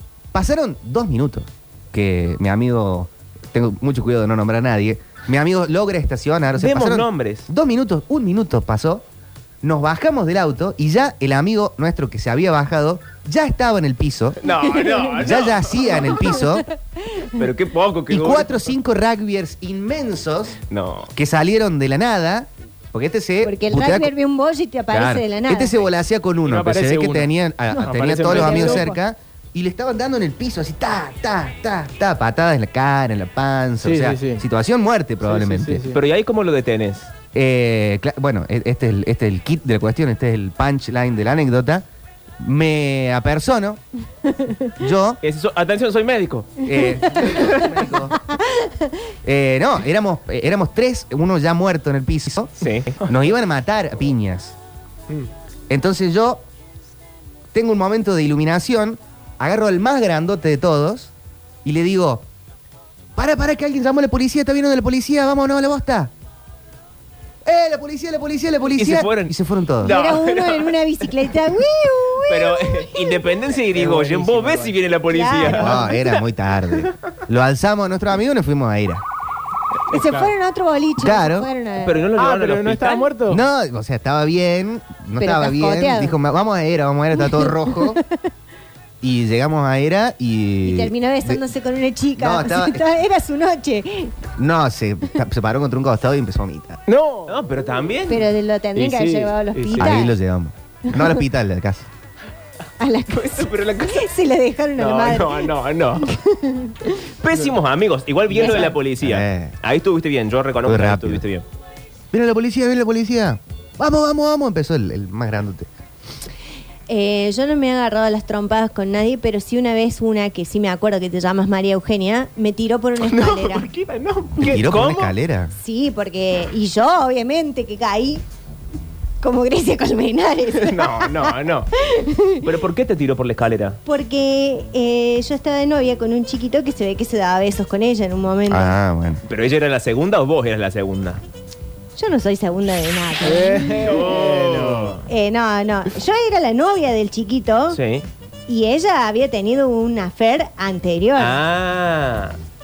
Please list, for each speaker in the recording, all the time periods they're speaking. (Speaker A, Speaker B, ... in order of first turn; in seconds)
Speaker A: 0.3-9.0, 9.6-14.4, 15.2-16.7, 18.1-20.6, 21.1-24.1, 24.9-35.8, 37.3-41.9, 42.4-43.8, 44.6-45.2, 46.6-48.2, 49.2-54.5, 55.7-56.4, 57.5-61.1, 61.6-62.2, 63.2-66.1, 67.4-69.9, 75.4-79.0, 81.0-81.5, 83.3-88.0, 89.0-91.4, 92.2-92.9, 94.4-96.8, 99.8-101.9, 109.0-109.6, 110.6-111.2, 112.1-115.7, 124.5-125.5, 138.5-139.2
Speaker B: 6.6-7.5, 14.4-16.3, 17.3-18.7, 20.7-21.1, 35.9-37.1, 45.2-47.8, 52.6-53.0, 68.7-70.8, 72.3-76.1, 81.8-83.1, 97.3-98.3, 103.1-104.1, 104.8-106.1, 107.2-111.4, 123.1-125.2, 130.6-131.7, 132.4-133.8, 139.2-141.2, 143.7-145.0, 147.7-148.1, 151.2-152.4
Speaker C: 14.5-15.2, 17.1-17.4, 23.4-25.9, 28.3-28.9, 48.3-48.9, 69.8-73.3, 75.1-75.9, 79.9-82.1, 85.2-86.2, 87.2-88.2, 90.6-94.2, 98.1-100.1, 100.9-101.2, 102.8-107.0, 108.4-108.8, 116.9-123.7, 125.5-128.2, 129.2-132.5, 133.8-138.8, 142.0-144.1, 145.1-147.8, 148.5-151.4
Speaker D: 26.4-29.0, 33.8-34.4, 35.2-36.0, 73.7-74.8, 79.9-80.3, 82.2-83.4, 96.9-97.5, 98.8-100.0, 108.3-108.7, 143.2-145.1